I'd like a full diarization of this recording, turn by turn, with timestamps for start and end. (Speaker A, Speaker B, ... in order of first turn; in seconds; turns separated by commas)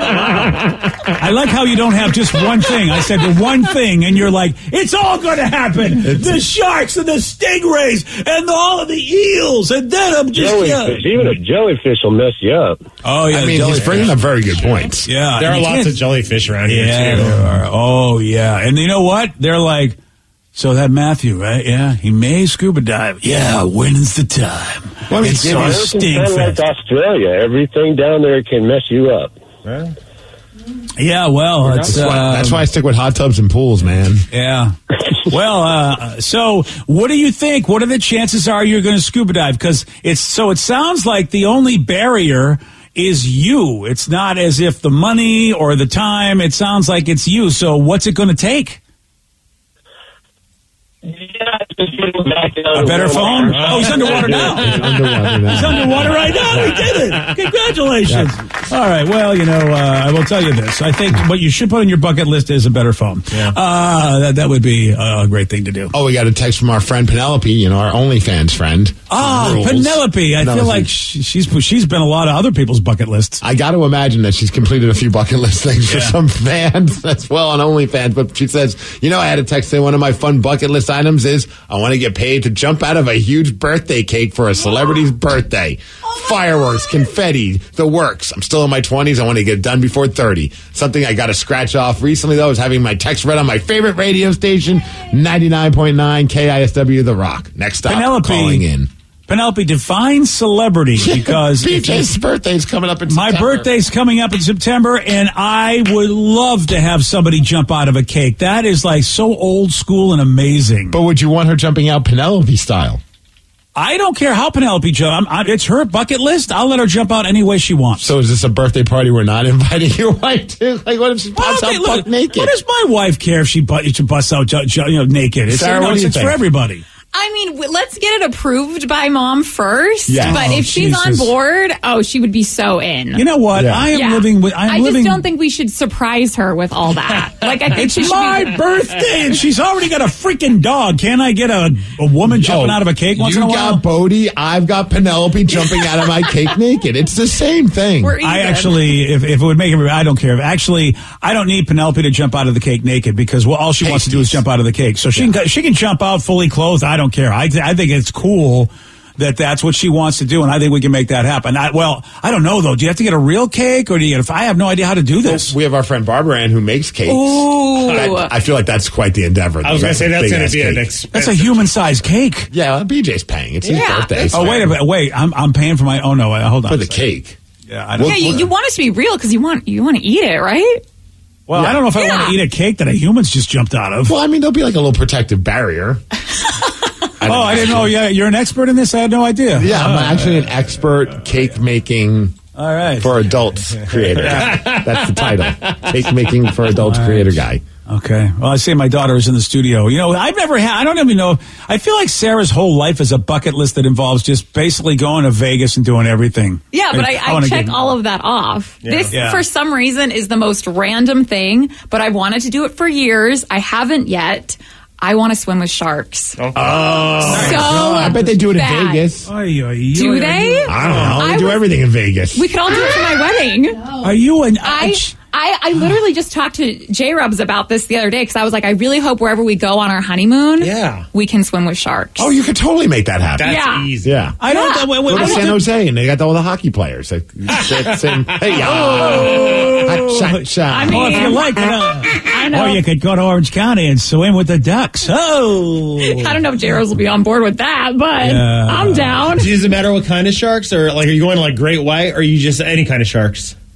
Speaker A: 1.1-11.1, Speaker B: 6.0-6.4, Speaker C: 10.3-12.8, Speaker A: 13.0-14.2, Speaker B: 13.3-15.1, Speaker D: 13.7-14.1, Speaker A: 15.1-16.1, Speaker D: 15.4-17.4, Speaker A: 16.6-20.0, Speaker A: 20.5-26.6, Speaker B: 25.1-25.9, Speaker C: 25.4-29.3, Speaker D: 29.6-29.9, Speaker A: 31.0-32.7, Speaker B: 31.7-34.3, Speaker A: 34.3-34.8, Speaker A: 35.3-48.8, Speaker C: 51.0-53.6, Speaker A: 52.7-65.9, Speaker D: 53.4-54.5, Speaker B: 53.6-57.0, Speaker B: 58.1-58.3, Speaker B: 65.9-70.9, Speaker A: 69.1-73.4, Speaker B: 73.4-98.9, Speaker A: 75.9-76.2, Speaker A: 97.9-98.6, Speaker A: 99.3-102.1, Speaker B: 101.0-103.7, Speaker A: 103.1-111.0, Speaker B: 110.9-113.0, Speaker A: 113.8-118.1, Speaker B: 118.0-122.5, Speaker A: 121.4-126.8, Speaker B: 125.5-126.4, Speaker E: 127.1-133.2, Speaker B: 130.1-131.2, Speaker A: 133.2-135.3, Speaker B: 133.6-133.9, Speaker E: 133.9-138.6, Speaker D: 137.4-137.7, Speaker A: 137.7-143.8, Speaker B: 142.3-148.2, Speaker E: 148.0-148.9, Speaker A: 148.2-165.6, Speaker B: 153.8-154.4, Speaker B: 165.2-170.9, Speaker E: 167.1-168.3, Speaker D: 169.6-171.8, Speaker A: 171.1-172.5, Speaker B: 172.5-174.8, Speaker D: 173.7-174.5, Speaker E: 173.7-174.2, Speaker A: 174.3-177.1, Speaker B: 176.7-177.4, Speaker A: 177.7-178.5, Speaker B: 178.0-178.5, Speaker E: 178.0-180.8, Speaker A: 181.5-184.2, Speaker B: 181.5-181.8, Speaker E: 181.9-182.4, Speaker B: 184.1-186.0, Speaker B: 187.2-188.0, Speaker A: 187.2-190.5, Speaker B: 189.6-192.4, Speaker A: 192.6-193.2, Speaker B: 193.0-197.6, Speaker A: 194.0-194.7, Speaker D: 194.2-195.3, Speaker A: 196.7-207.8, Speaker E: 206.7-216.4, Speaker D: 208.8-209.1, Speaker A: 209.1-209.5, Speaker D: 216.4-217.5, Speaker A: 216.6-218.3, Speaker B: 217.2-219.3, Speaker E: 217.3-219.1, Speaker A: 219.2-221.4, Speaker E: 219.9-221.6, Speaker B: 220.7-222.5, Speaker E: 222.3-224.0, Speaker A: 224.0-225.2, Speaker E: 224.6-232.4, Speaker D: 230.6-231.1, Speaker B: 232.2-234.4, Speaker D: 233.4-234.2, Speaker E: 233.4-233.9, Speaker A: 234.4-235.7, Speaker E: 234.4-234.9, Speaker B: 235.0-241.3, Speaker A: 238.7-246.4, Speaker E: 240.7-241.6, Speaker E: 242.2-242.8, Speaker E: 246.0-249.5, Speaker A: 248.2-249.4, Speaker D: 249.3-253.6